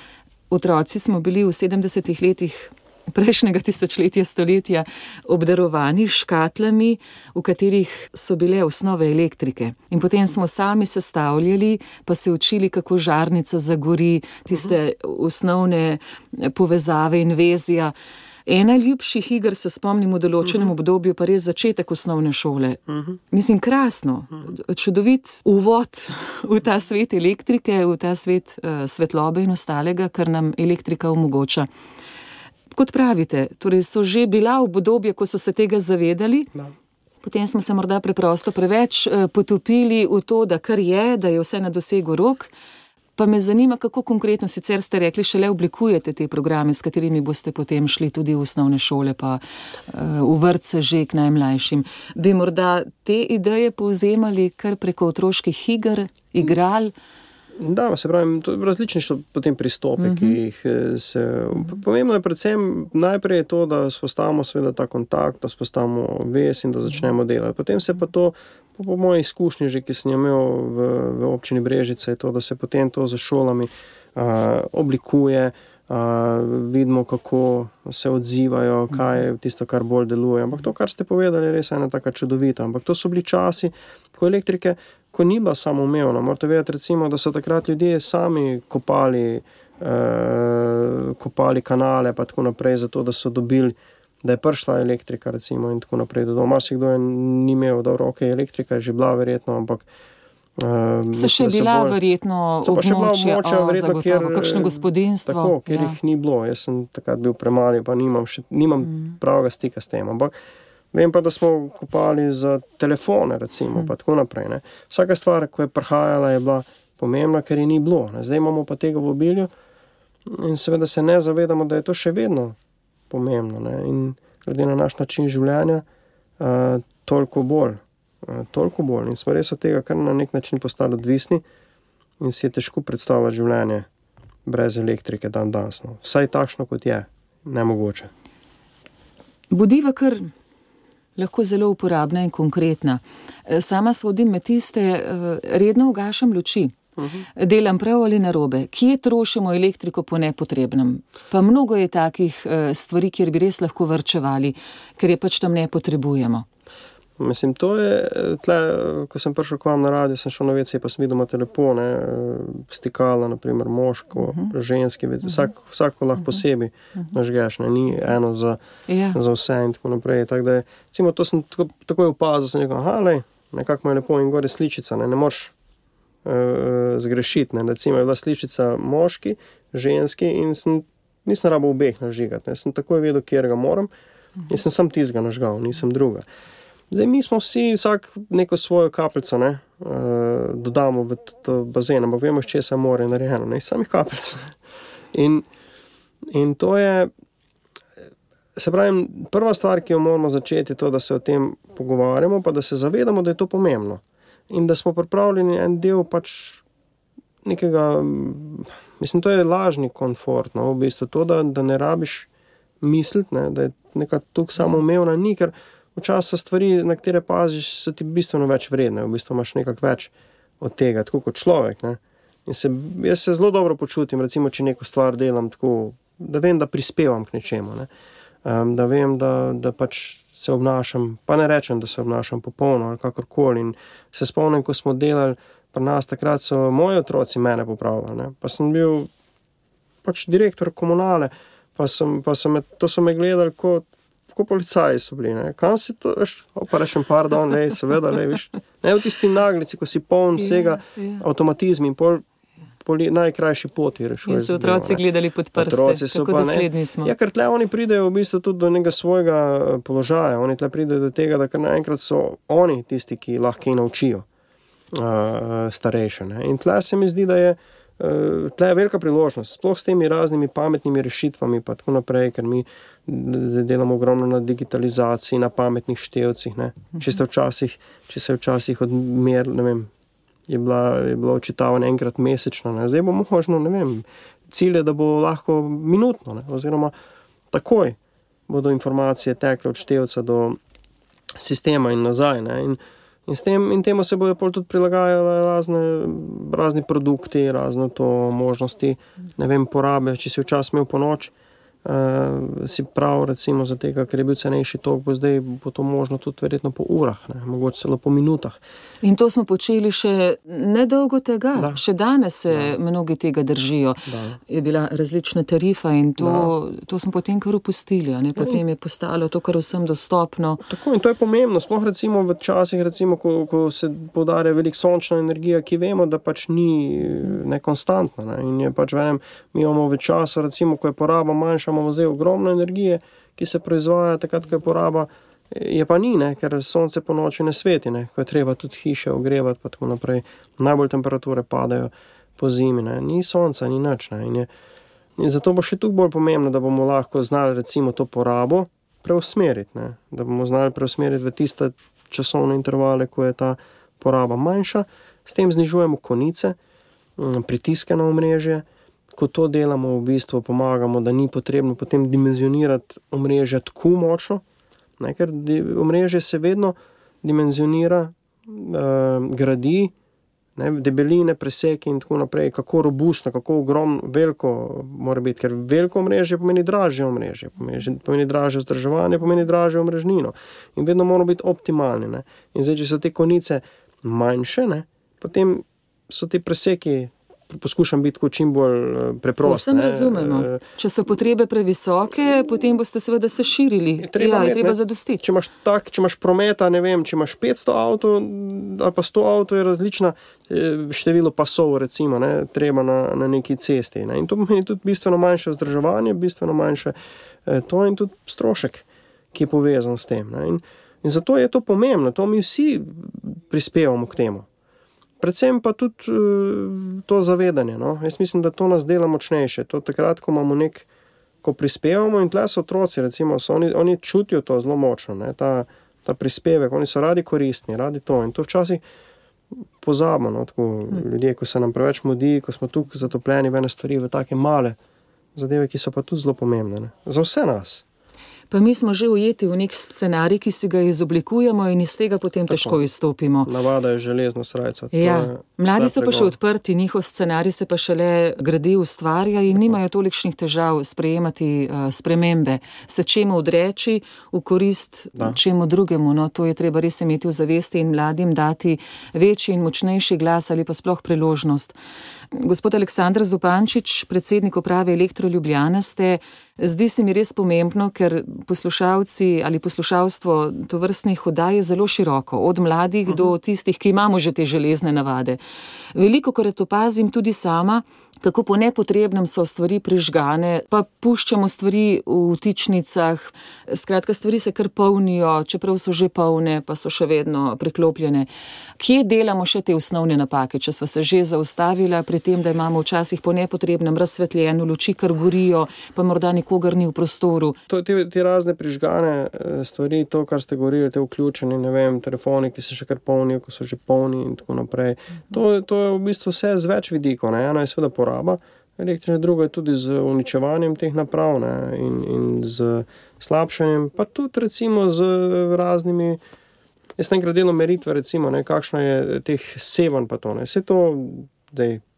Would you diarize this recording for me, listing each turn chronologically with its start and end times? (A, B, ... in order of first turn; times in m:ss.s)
0:00.5-0:17.9 A
0:18.4-0:31.7 A
0:32.7-0:36.5 A
0:37.2-0:42.5 A
0:43.2-0:56.9 A
0:57.6-1:39.8 B
1:00.1-1:00.4 A
1:40.6-1:42.0 B
1:41.1-1:46.0 A
1:42.6-1:50.3 B
1:50.9-1:59.5 B
2:00.2-2:02.6 B
2:03.1-2:05.8 B
2:06.4-2:11.4 B
2:12.2-2:13.9 B
2:14.4-2:18.1 B
2:19.5-2:20.3 A
2:21.2-2:26.8 A
2:27.0-2:27.2 B
2:27.3-2:36.4 A
2:37.2-2:48.6 B
2:48.9-2:49.2 A
2:49.1-2:55.5 B
2:56.2-3:03.9 B
3:04.5-3:06.2 B
3:06.9-3:14.5 B
3:15.1-3:15.4 B
3:16.3-3:17.1 B
3:18.5-3:26.6 B
3:27.4-3:32.3 B
3:32.8-3:47.9 B
3:48.4-3:59.1 B
4:00.0-4:12.2 B
4:10.6-4:11.2 A
4:12.8-4:15.0 B
4:14.2-4:17.1 A
4:15.6-4:24.2 B
4:24.9-4:39.9 B
4:40.5-4:46.9 B
4:47.5-4:50.6 B
4:51.4-5:01.3 B
5:01.8-5:08.6 B
5:09.0-5:20.6 A
5:14.1-5:14.4 B
5:16.2-5:16.5 B
5:20.6-5:44.5 B
5:45.2-5:56.6 B
5:57.2-6:04.4 B
6:05.0-6:09.9 B
6:10.6-6:30.6 B
6:29.4-6:35.2 A
6:34.0-6:54.4 B
6:55.2-7:00.9 B
7:01.4-7:08.8 B
7:09.8-7:14.8 B
7:15.3-7:17.8 B
7:18.5-7:23.5 A
7:22.5-7:22.8 B
7:23.4-7:26.3 B
7:24.9-7:41.7 A
7:42.3-7:55.4 A
7:55.9-8:08.3 A
8:08.8-8:17.6 A
8:17.7-8:36.2 B
8:37.0-8:41.8 B